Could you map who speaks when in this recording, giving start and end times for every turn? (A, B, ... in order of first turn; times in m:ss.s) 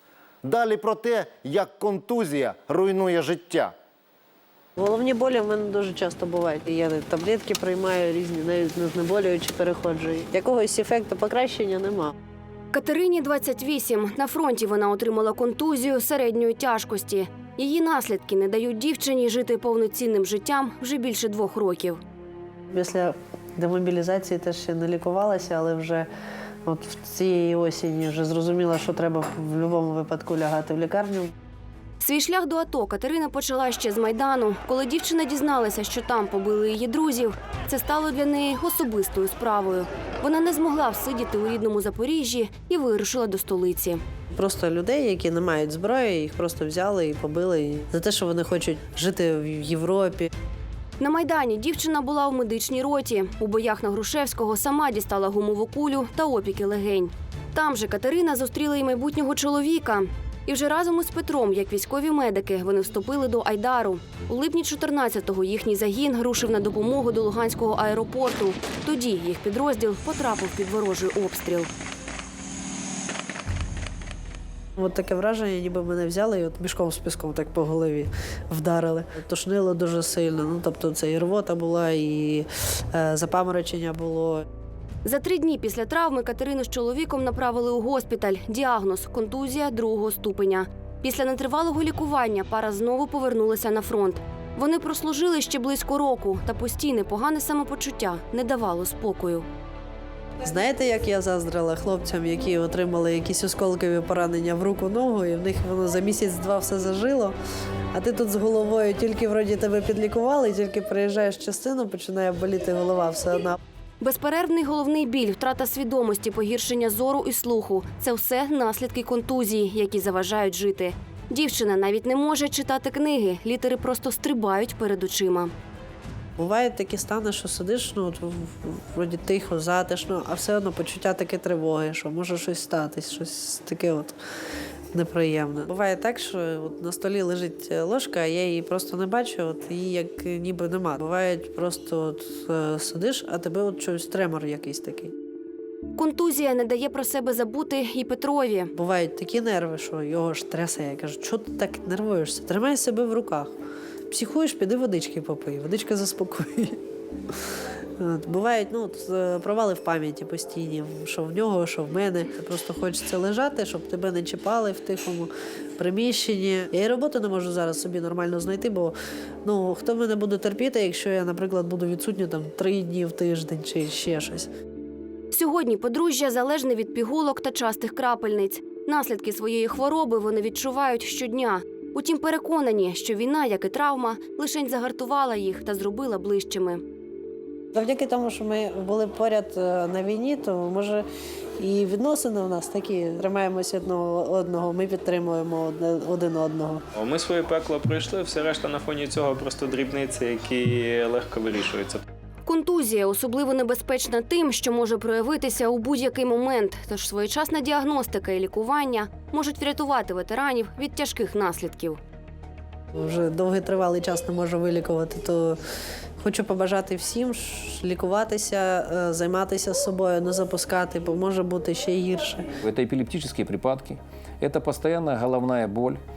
0:00.4-0:03.7 A
0:04.8-0:12.1 B
0:12.7-0:22.0 C
0:22.7-0:26.1 B
0:26.6-0:31.3 B
0:32.0-0:44.0 C
0:44.3-0:50.3 B
0:51.0-1:11.7 C
1:14.8-1:24.4 B
1:25.0-1:39.5 C
1:40.4-1:47.4 B
1:47.9-1:53.6 B
1:54.0-2:05.5 C
2:06.4-2:14.1 B
2:14.9-2:25.1 B
2:26.0-2:28.7 C
2:28.7-2:33.5 B
2:34.1-2:36.8 B
2:38.0-2:54.5 B
2:55.3-3:06.8 C
3:07.7-3:11.0 B
3:11.6-3:16.8 B
3:16.9-3:22.0 D
3:22.4-3:32.0 C
3:32.9-3:35.6 B
3:36.2-3:42.4 B
3:42.6-3:46.0 E